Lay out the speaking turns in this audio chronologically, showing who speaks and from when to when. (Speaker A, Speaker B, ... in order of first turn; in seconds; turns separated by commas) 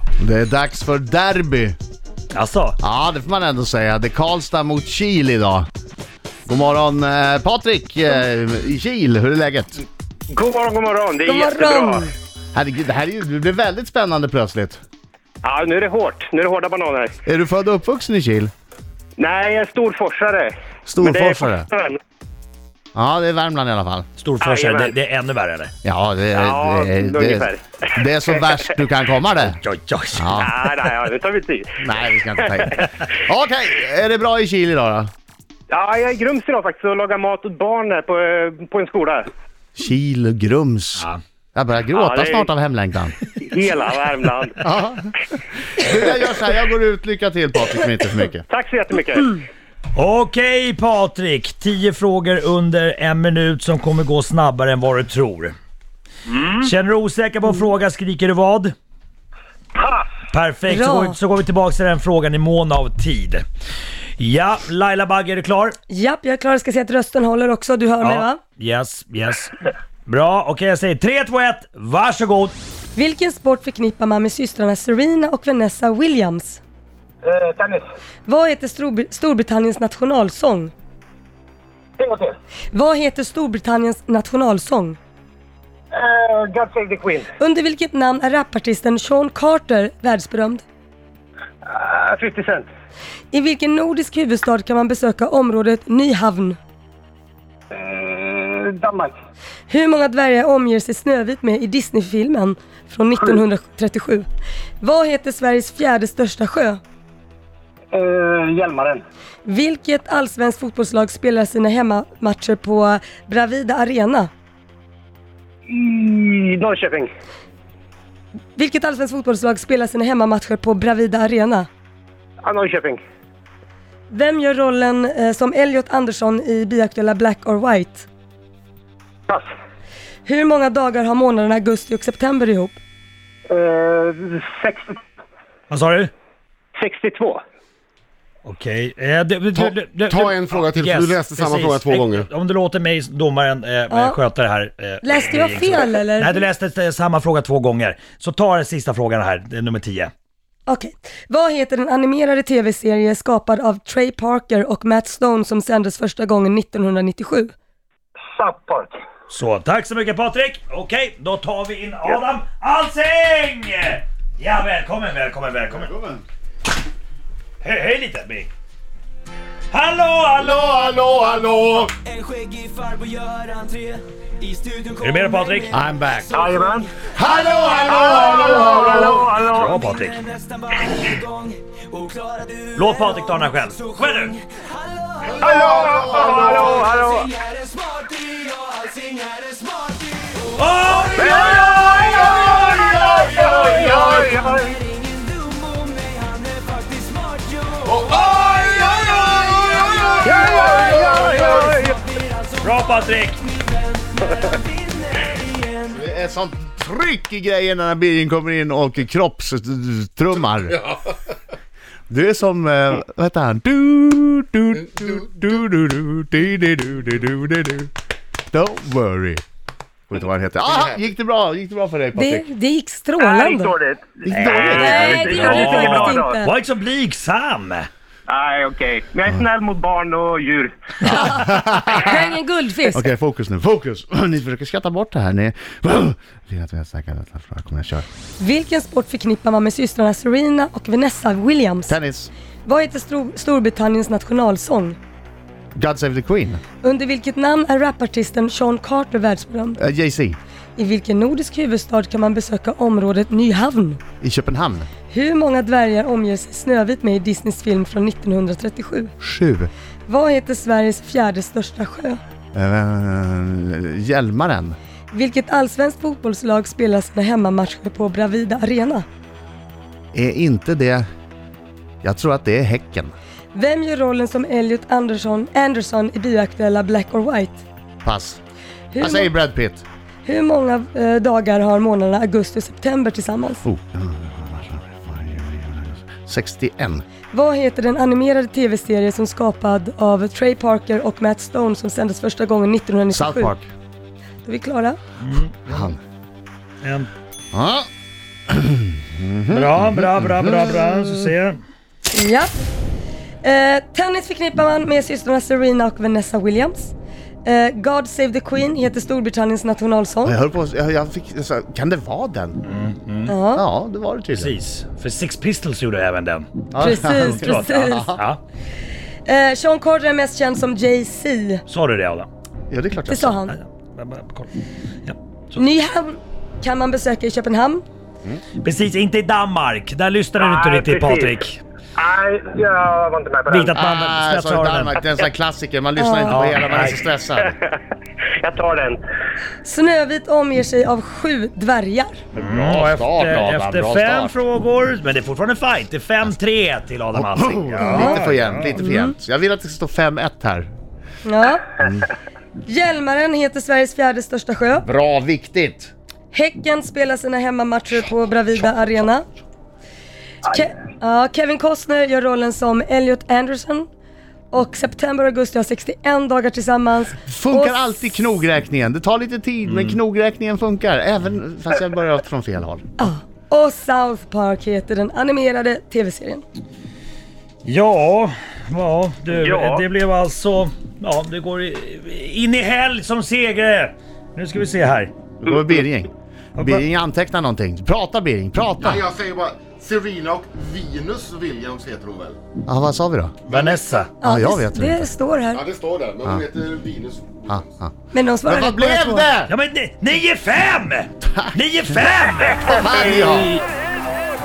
Speaker A: 0.2-1.8, Speaker B: 2.3-2.8, Speaker A: 2.8-5.7, Speaker A: 6.5-9.8, Speaker C: 10.3-12.0, Speaker D: 11.2-12.1, Speaker A: 12.5-14.8, Speaker C: 15.4-17.1, Speaker A: 17.2-18.5, Speaker C: 19.2-22.0, Speaker A: 20.9-21.7, Speaker A: 22.9-24.1, Speaker B: 24.2-25.7, Speaker C: 24.4-24.9, Speaker A: 25.8-29.6, Speaker C: 26.4-28.0, Speaker B: 29.4-30.5, Speaker A: 30.1-30.5, Speaker C: 30.3-31.9, Speaker A: 31.8-35.1, Speaker C: 32.4-32.9, Speaker C: 35.7-39.2, Speaker A: 39.8-43.1, Speaker C: 41.9-42.5, Speaker C: 43.4-44.6, Speaker A: 44.6-48.5, Speaker C: 48.5-49.4, Speaker B: 49.9-55.5, Speaker B: 56.3-58.7, Speaker C: 59.7-60.1, Speaker B: 60.3-63.4, Speaker D: 60.7-61.1, Speaker B: 64.2-65.8, Speaker D: 65.9-68.4, Speaker B: 68.0-72.5, Speaker D: 72.9-76.6, Speaker C: 77.2-77.8, Speaker D: 78.2-80.7, Speaker C: 82.0-82.3, Speaker D: 82.7-85.0, Speaker C: 85.9-87.3, Speaker D: 87.4-90.6, Speaker C: 91.6-92.7, Speaker D: 93.3-96.6, Speaker C: 97.7-99.1, Speaker D: 99.7-104.3, Speaker D: 104.8-106.8, Speaker C: 107.9-109.0, Speaker D: 109.4-114.3, Speaker C: 115.7-117.1, Speaker D: 118.5-121.7, Speaker C: 122.4-123.0, Speaker D: 124.1-128.1, Speaker D: 130.2-132.8, Speaker C: 133.5-135.0, Speaker B: 135.7-136.1, Speaker C: 136.8-137.4, Speaker B: 138.4-150.1, Speaker E: 139.6-142.3, Speaker D: 143.9-144.2, Speaker D: 145.0-146.4, Speaker D: 150.7-157.5, Speaker C: 158.3-158.9, Speaker B: 159.3-165.9, Speaker A: 165.7-166.2, Speaker B: 167.6-168.5, Speaker B: 169.7-171.0, Speaker A: 170.4-171.8, Speaker E: 170.7-171.9, Speaker F: 172.2-173.9, Speaker F: 174.5-174.8, Speaker B: 175.0-175.8, Speaker A: 175.7-176.4, Speaker C: 176.3-176.9, Speaker A: 177.2-179.0, Speaker E: 177.4-179.1, Speaker C: 177.8-179.8, Speaker B: 179.5-180.2, Speaker B: 182.7-184.4, Speaker E: 185.3-186.8, Speaker C: 185.4-187.3, Speaker F: 187.7-189.8, Speaker B: 190.5-194.2, Speaker C: 191.2-194.7, Speaker E: 193.0-193.9, Speaker F: 195.6-197.8, Speaker B: 198.0-201.8, Speaker E: 198.0-201.7, Speaker C: 200.3-201.7, Speaker B: 202.6-203.5, Speaker A: 205.9-210.9, Speaker A: 212.1-217.9, Speaker A: 218.5-219.4, Speaker A: 220.1-222.4, Speaker D: 222.1-223.7, Speaker C: 223.2-226.3, Speaker A: 224.3-225.2, Speaker B: 224.3-227.9, Speaker D: 224.6-226.5, Speaker C: 228.3-230.7, Speaker A: 231.1-232.3, Speaker D: 231.8-233.0, Speaker A: 232.9-238.1, Speaker D: 238.4-241.9, Speaker A: 241.9-242.3, Speaker D: 242.6-245.0, Speaker A: 245.7-246.6, Speaker D: 246.8-249.8, Speaker A: 249.8-250.4, Speaker D: 250.8-254.0, Speaker A: 254.2-254.9, Speaker D: 255.1-259.1, Speaker A: 259.2-259.7, Speaker D: 260.1-262.2, Speaker A: 262.5-264.8, Speaker D: 265.1-269.1, Speaker A: 270.1-271.1, Speaker A: 272.0-273.1, Speaker D: 273.5-277.6, Speaker A: 278.0-278.4, Speaker D: 278.9-279.3, Speaker A: 279.0-279.8, Speaker D: 280.2-283.6, Speaker A: 283.6-287.0, Speaker D: 287.3-293.6, Speaker A: 293.1-293.7, Speaker D: 294.4-295.0, Speaker B: 295.2-295.9, Speaker A: 295.7-296.0, Speaker B: 296.8-297.1, Speaker A: 297.5-297.9, Speaker A: 298.5-301.1, Speaker B: 299.5-301.6, Speaker D: 302.1-302.5, Speaker D: 303.4-310.4, Speaker A: 310.2-312.6, Speaker B: 312.6-313.3, Speaker D: 313.3-313.6, Speaker A: 313.5-314.5, Speaker B: 314.3-318.4, Speaker A: 316.7-318.2, Speaker D: 316.8-318.1, Speaker D: 319.2-321.6, Speaker B: 321.7-322.3, Speaker A: 322.7-323.4, Speaker D: 323.1-323.6, Speaker B: 323.5-324.5, Speaker B: 325.0-325.6, Speaker D: 325.6-327.8, Speaker B: 328.6-331.6, Speaker C: 330.4-331.4, Speaker C: 332.0-333.8, Speaker B: 333.5-335.0, Speaker A: 333.7-337.6, Speaker D: 336.0-336.5, Speaker B: 336.3-337.0, Speaker C: 338.4-339.0, Speaker D: 339.6-342.2, Speaker B: 342.3-348.8, Speaker A: 342.3-344.4, Speaker A: 347.1-350.7, Speaker D: 347.8-348.2, Speaker D: 348.8-349.1, Speaker D: 351.2-351.7, Speaker A: 351.8-352.1, Speaker D: 352.6-354.9, Speaker A: 354.8-355.9, Speaker D: 356.3-359.3, Speaker D: 360.4-363.9, Speaker D: 364.5-368.3, Speaker A: 367.3-372.8, Speaker B: 369.7-370.0, Speaker D: 373.0-376.4, Speaker B: 377.6-385.1, Speaker C: 379.3-379.8, Speaker A: 385.4-389.1, Speaker B: 386.6-386.8, Speaker E: 388.8-392.4, Speaker A: 392.6-393.4, Speaker E: 393.5-394.1, Speaker B: 393.5-394.1, Speaker A: 394.2-395.1, Speaker D: 394.2-395.6, Speaker E: 395.5-397.6, Speaker A: 397.5-397.9, Speaker D: 398.1-399.3, Speaker A: 398.4-399.5, Speaker B: 399.5-402.9, Speaker A: 401.3-401.6, Speaker A: 402.6-403.6